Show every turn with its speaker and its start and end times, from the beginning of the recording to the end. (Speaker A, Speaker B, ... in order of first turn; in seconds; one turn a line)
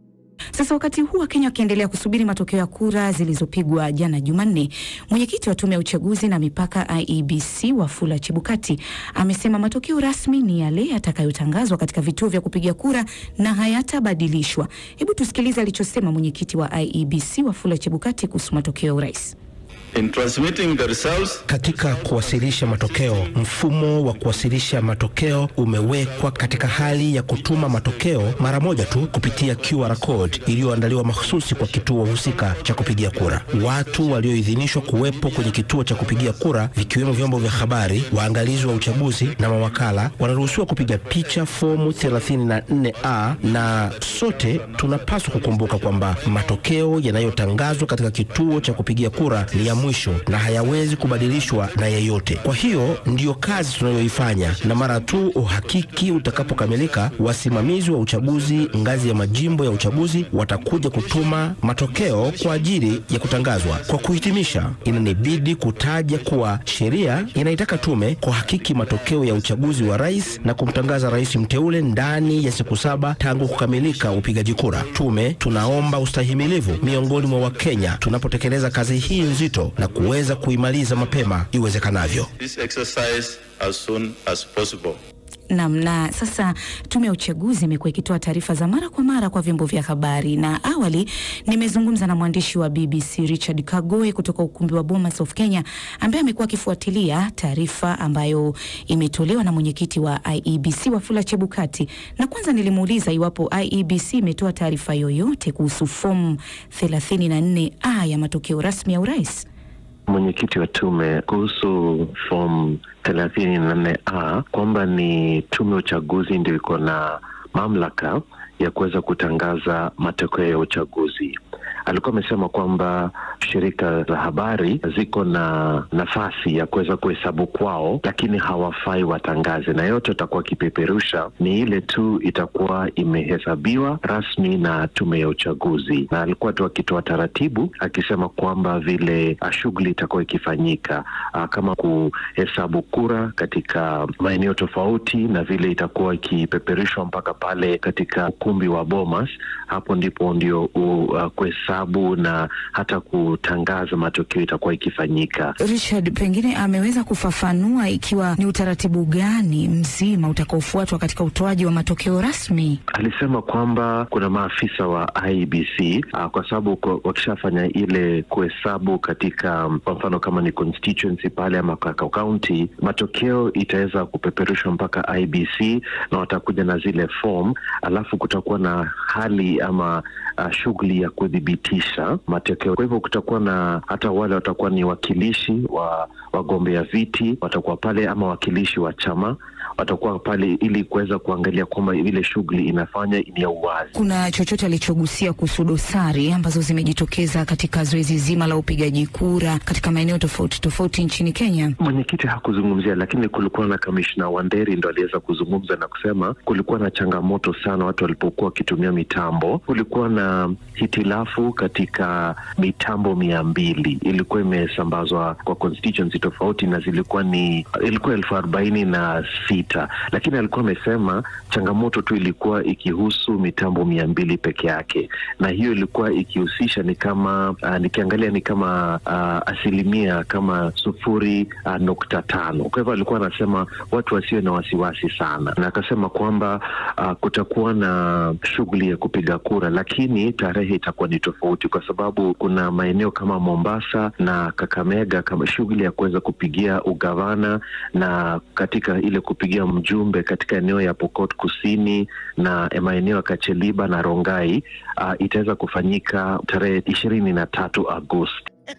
Speaker A: 0.6-19.4
Speaker B: 19.9-21.4
Speaker C: 21.5-82.3
Speaker B: 82.4-85.0
Speaker A: 85.5-109.5
Speaker D: 110.1-155.5
Speaker A: 155.6-162.8
Speaker D: 162.9-193.9
Speaker A: 193.9-201.7
Speaker D: 201.8-258.5